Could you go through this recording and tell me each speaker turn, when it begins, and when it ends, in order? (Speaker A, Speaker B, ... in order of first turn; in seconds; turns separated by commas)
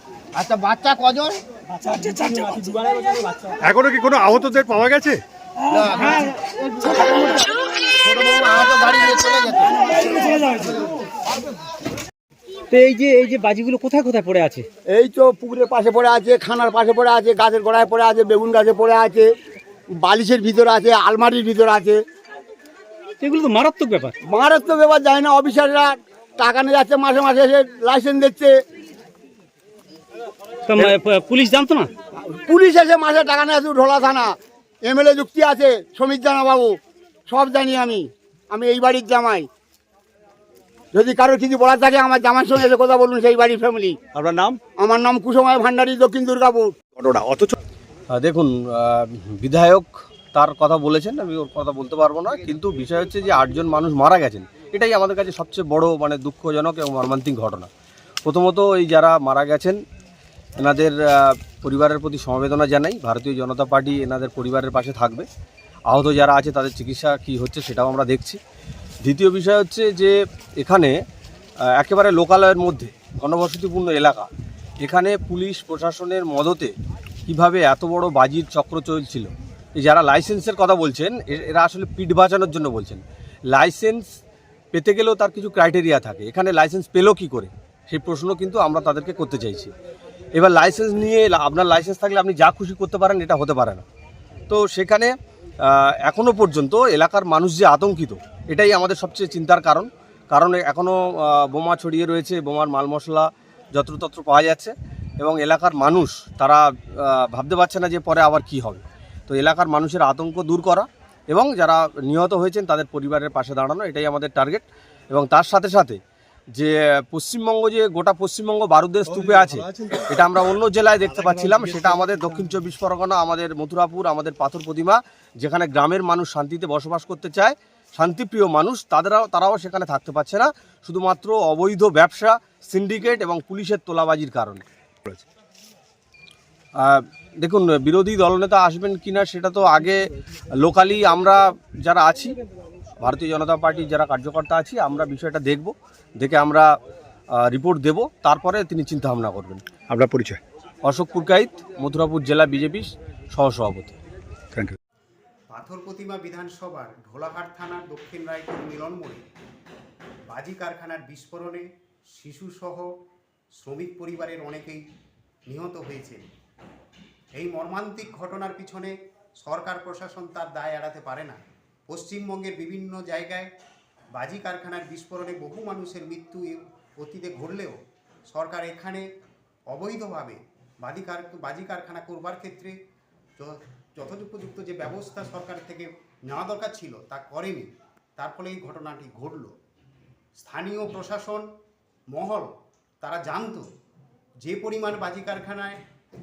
Speaker A: 0.3-1.4, Speaker B: 1.8-3.2, Speaker C: 3.6-5.2, Speaker A: 5.7-10.9, Speaker B: 12.7-14.7, Speaker D: 14.9-19.3, Speaker D: 20.0-22.0, Speaker B: 23.2-24.1, Speaker D: 24.3-28.6, Speaker B: 30.7-31.9, Speaker D: 32.5-39.5, Speaker D: 40.9-44.0, Speaker C: 44.1-44.6, Speaker D: 44.8-46.7, Speaker C: 47.0-47.6, Speaker E: 48.1-57.7, Speaker E: 58.2-59.8, Speaker E: 60.6-65.3, Speaker E: 65.9-68.4, Speaker E: 69.0-71.0, Speaker E: 71.8-74.3, Speaker E: 74.8-76.7, Speaker E: 77.3-84.1, Speaker E: 84.7-89.7, Speaker E: 90.3-93.8, Speaker E: 94.5-116.0, Speaker E: 116.5-134.6, Speaker E: 136.8-140.1, Speaker E: 140.6-142.4, Speaker E: 143.0-146.7, Speaker E: 147.4-149.6, Speaker C: 149.9-150.4, Speaker E: 150.8-153.9, Speaker F: 155.5-159.2, Speaker F: 160.3-162.9, Speaker F: 163.6-164.8, Speaker F: 165.5-166.2, Speaker F: 167.3-173.5, Speaker F: 174.1-177.8, Speaker F: 178.3-179.1, Speaker F: 179.7-182.7, Speaker F: 183.4-189.5, Speaker F: 190.4-191.5, Speaker F: 192.1-192.5, Speaker F: 193.0-193.7, Speaker F: 194.4-195.8